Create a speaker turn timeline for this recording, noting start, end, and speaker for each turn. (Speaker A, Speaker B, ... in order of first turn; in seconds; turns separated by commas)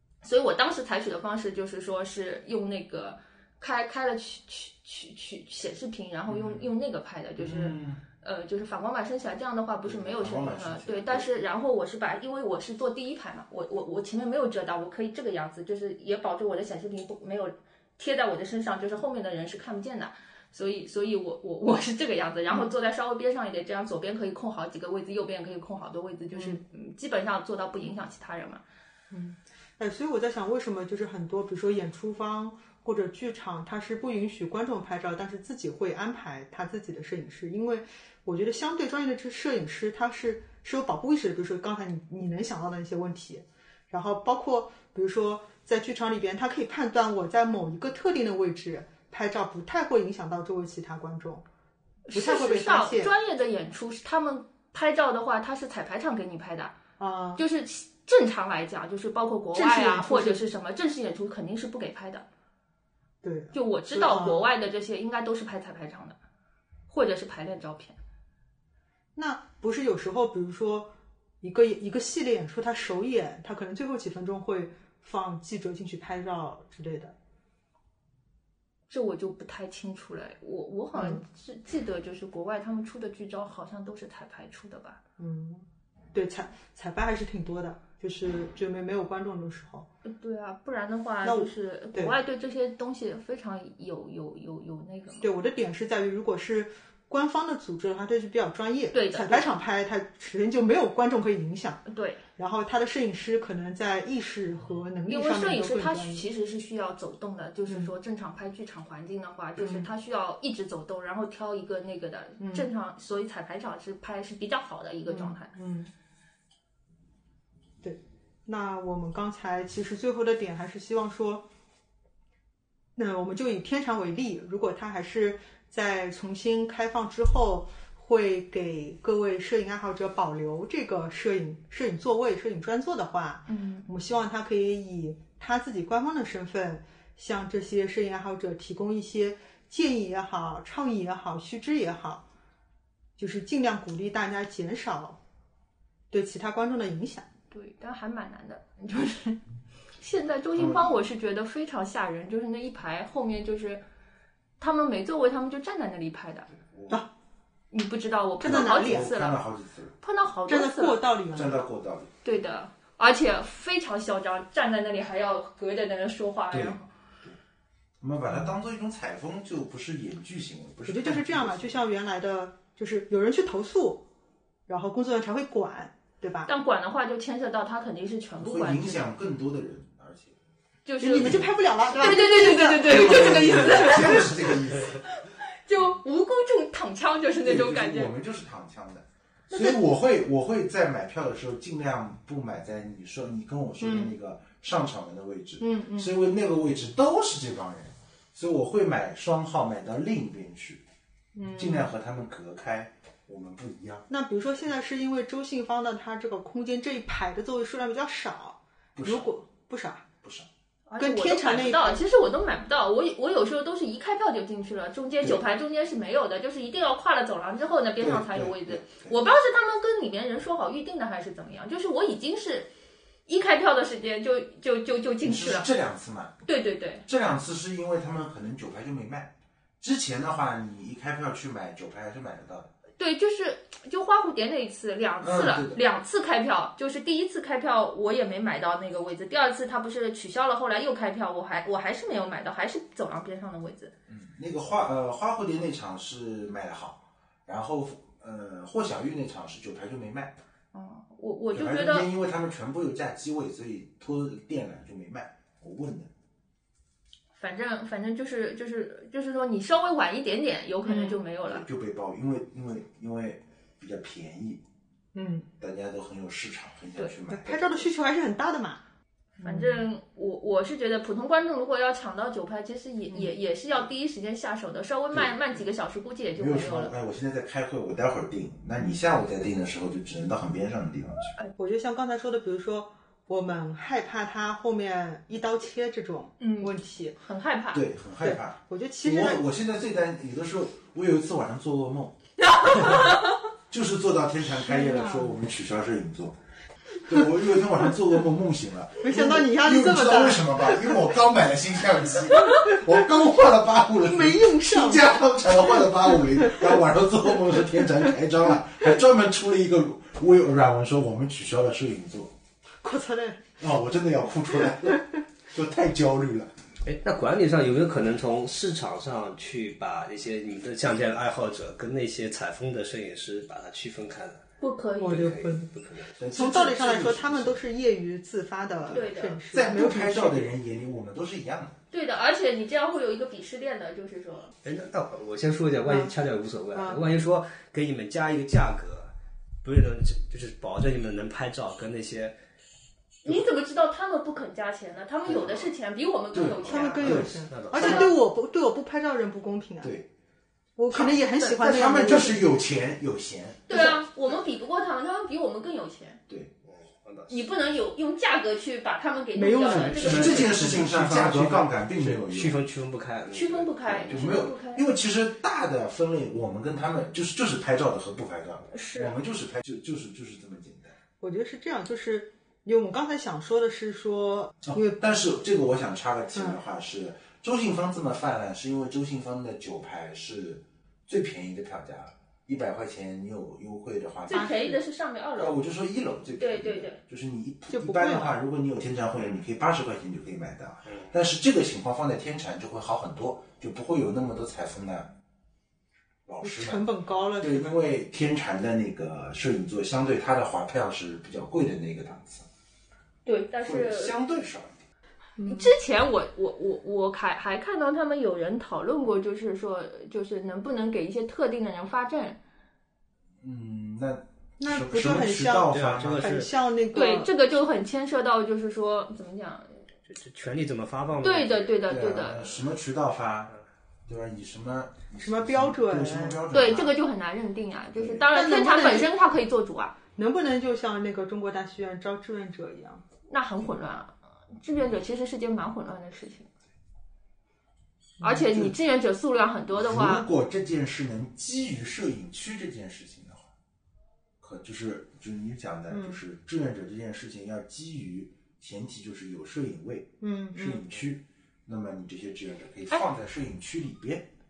Speaker A: 0.2-28.6, Speaker B: 6.3-6.7, Speaker B: 7.4-8.0, Speaker B: 9.9-11.3, Speaker C: 26.3-26.6, Speaker C: 29.1-51.5, Speaker A: 52.1-56.8, Speaker C: 52.1-53.1, Speaker C: 57.0-57.4, Speaker A: 57.4-62.3, Speaker C: 59.5-60.4, Speaker C: 63.2-64.4, Speaker A: 63.5-66.2, Speaker A: 66.9-68.0, Speaker C: 69.2-77.2, Speaker A: 78.9-85.0, Speaker C: 81.0-81.2, Speaker C: 85.2-89.9, Speaker A: 90.0-95.3, Speaker C: 91.2-92.2, Speaker C: 95.2-101.8, Speaker A: 98.9-99.5, Speaker A: 101.9-102.2, Speaker C: 102.4-106.3, Speaker A: 105.1-115.5, Speaker C: 109.6-109.9, Speaker C: 112.4-112.7, Speaker C: 115.1-115.9, Speaker C: 117.8-121.5, Speaker C: 123.0-142.2, Speaker A: 133.5-133.9, Speaker C: 143.2-145.2, Speaker C: 146.1-147.3, Speaker A: 147.5-149.4, Speaker A: 150.0-153.8, Speaker B: 150.6-150.9, Speaker A: 154.6-156.5, Speaker B: 156.6-157.0, Speaker A: 157.7-159.4, Speaker C: 158.4-159.1, Speaker B: 158.4-159.9, Speaker A: 160.0-161.1, Speaker C: 160.5-161.6, Speaker B: 161.3-162.1, Speaker A: 162.2-166.8, Speaker B: 166.5-167.4, Speaker B: 168.0-171.8, Speaker C: 170.9-174.1, Speaker C: 174.7-176.5, Speaker A: 176.5-179.1, Speaker B: 178.4-180.3, Speaker A: 180.8-188.1, Speaker C: 181.0-184.1, Speaker B: 182.8-185.0, Speaker B: 187.4-200.8, Speaker C: 193.8-194.1, Speaker C: 195.6-196.1, Speaker C: 201.3-201.9, Speaker B: 201.5-204.1, Speaker C: 204.1-210.1, Speaker B: 208.9-209.3, Speaker B: 210.2-210.5, Speaker A: 210.9-222.7, Speaker C: 211.0-212.0, Speaker B: 218.0-219.1, Speaker A: 223.3-225.7, Speaker B: 225.2-226.4, Speaker A: 226.4-227.1, Speaker B: 227.1-232.7, Speaker A: 233.0-243.9, Speaker B: 235.2-235.8, Speaker B: 244.1-250.4, Speaker A: 250.7-252.1, Speaker B: 251.5-256.1, Speaker A: 257.4-261.6, Speaker C: 260.9-261.2, Speaker B: 261.4-264.6, Speaker C: 265.1-265.5, Speaker B: 265.6-267.7, Speaker C: 267.3-268.8, Speaker C: 269.4-269.9, Speaker A: 269.4-276.9, Speaker C: 273.1-273.3, Speaker B: 276.4-281.3, Speaker C: 281.6-287.2, Speaker A: 286.4-287.8, Speaker B: 287.7-293.2, Speaker C: 288.2-289.4, Speaker B: 293.7-296.4, Speaker C: 294.5-295.4, Speaker B: 297.1-312.3, Speaker C: 299.0-301.1, Speaker C: 304.0-305.2, Speaker C: 312.8-313.4, Speaker B: 313.6-316.5, Speaker D: 316.9-324.4, Speaker A: 324.6-325.4, Speaker C: 325.0-325.7, Speaker D: 325.1-326.1, Speaker B: 326.2-327.6, Speaker C: 326.3-330.5, Speaker A: 328.9-329.4, Speaker B: 329.5-331.8, Speaker A: 331.9-334.5, Speaker D: 334.6-339.1, Speaker C: 335.9-336.1, Speaker C: 336.7-337.1, Speaker D: 339.6-342.4, Speaker A: 343.2-348.1, Speaker B: 346.3-347.5, Speaker C: 346.6-349.9, Speaker D: 347.4-348.1, Speaker B: 349.8-350.1, Speaker C: 350.8-352.4, Speaker B: 350.9-354.0, Speaker A: 353.7-356.2, Speaker D: 356.7-357.4, Speaker A: 357.3-360.5, Speaker C: 359.3-360.3, Speaker D: 359.7-364.2, Speaker B: 360.0-362.6, Speaker A: 363.3-364.9, Speaker B: 363.9-370.9, Speaker A: 368.7-369.1, Speaker C: 371.2-375.0, Speaker B: 374.6-384.7, Speaker A: 384.3-385.6, Speaker C: 384.3-384.8, Speaker B: 385.4-395.1, Speaker A: 386.4-387.0, Speaker C: 387.7-388.4, Speaker B: 396.3-396.8, Speaker C: 396.4-397.7, Speaker B: 397.4-402.4, Speaker A: 403.3-404.1, Speaker B: 403.6-404.9, Speaker C: 405.4-405.7, Speaker A: 405.4-412.4, Speaker B: 413.4-416.3, Speaker C: 414.6-417.3, Speaker D: 415.7-416.5, Speaker A: 416.9-419.8, Speaker D: 420.1-421.7, Speaker A: 421.2-422.5, Speaker B: 421.9-423.5, Speaker B: 424.1-427.0, Speaker C: 425.2-426.4, Speaker A: 426.5-429.9, Speaker B: 427.9-428.3, Speaker C: 428.3-429.1, Speaker C: 430.2-433.0, Speaker A: 433.3-436.5, Speaker C: 438.2-438.5, Speaker A: 438.2-440.3, Speaker B: 439.8-443.5, Speaker B: 444.4-454.3, Speaker C: 445.9-446.2, Speaker C: 450.2-450.8